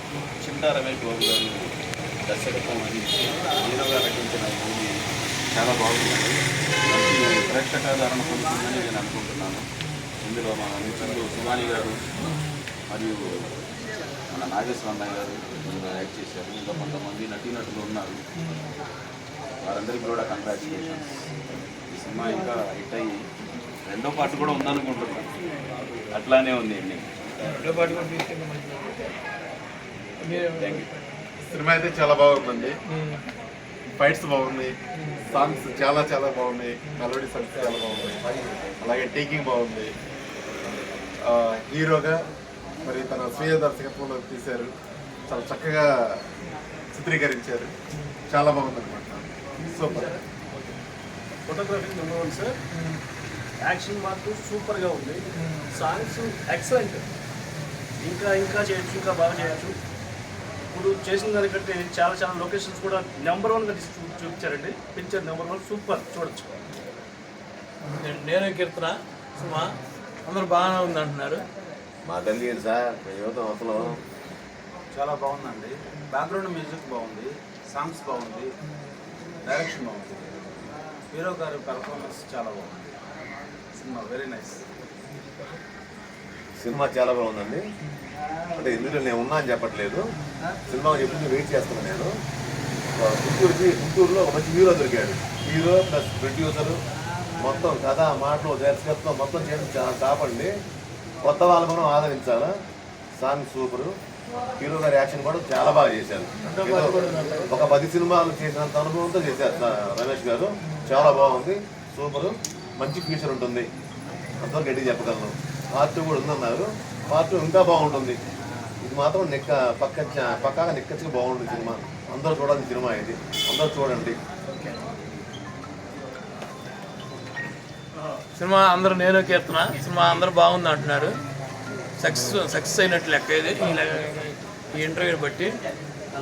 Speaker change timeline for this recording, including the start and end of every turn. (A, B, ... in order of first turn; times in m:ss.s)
0:00.4-0:01.7 A
0:02.3-0:04.9 A
0:05.5-0:09.6 A
0:10.2-0:12.0 A
0:12.9-0:13.2 A
0:14.3-0:18.2 A
0:19.6-0:21.2 A
0:21.9-0:23.2 A
0:23.9-0:25.3 A
0:26.1-0:27.1 A
0:27.4-0:29.0 B
0:30.2-0:30.9 B
0:30.6-0:30.9 A
0:31.4-0:32.8 C
0:32.9-0:33.2 B
0:34.0-0:34.8 C
0:35.0-0:35.2 B
0:35.3-0:38.2 C
0:38.8-0:39.9 C
0:41.2-0:42.2 C
0:42.8-0:44.7 C
0:45.3-0:46.2 C
0:46.9-0:47.7 C
0:48.3-0:50.0 C
0:49.9-0:50.2 D
0:51.5-0:52.6 D
0:53.6-0:57.0 D
0:58.0-0:59.8 D
1:00.7-1:06.6 D
1:07.8-1:09.7 B
1:10.2-1:11.4 B
1:12.0-1:14.0 E
1:15.0-1:18.5 F
1:19.5-1:20.2 F
1:21.1-1:22.9 F
1:23.9-1:24.4 F
1:26.6-1:27.6 E
1:28.5-1:30.0 E
1:30.7-1:32.1 E
1:33.0-1:36.8 E
1:37.4-1:40.5 E
1:41.2-1:42.5 E
1:43.2-1:43.9 E
1:44.6-1:53.7 E
1:46.4-1:47.6 B
1:54.4-1:58.2 E
1:58.8-2:04.2 E
2:08.4-2:11.1 B
2:12.0-2:15.5 B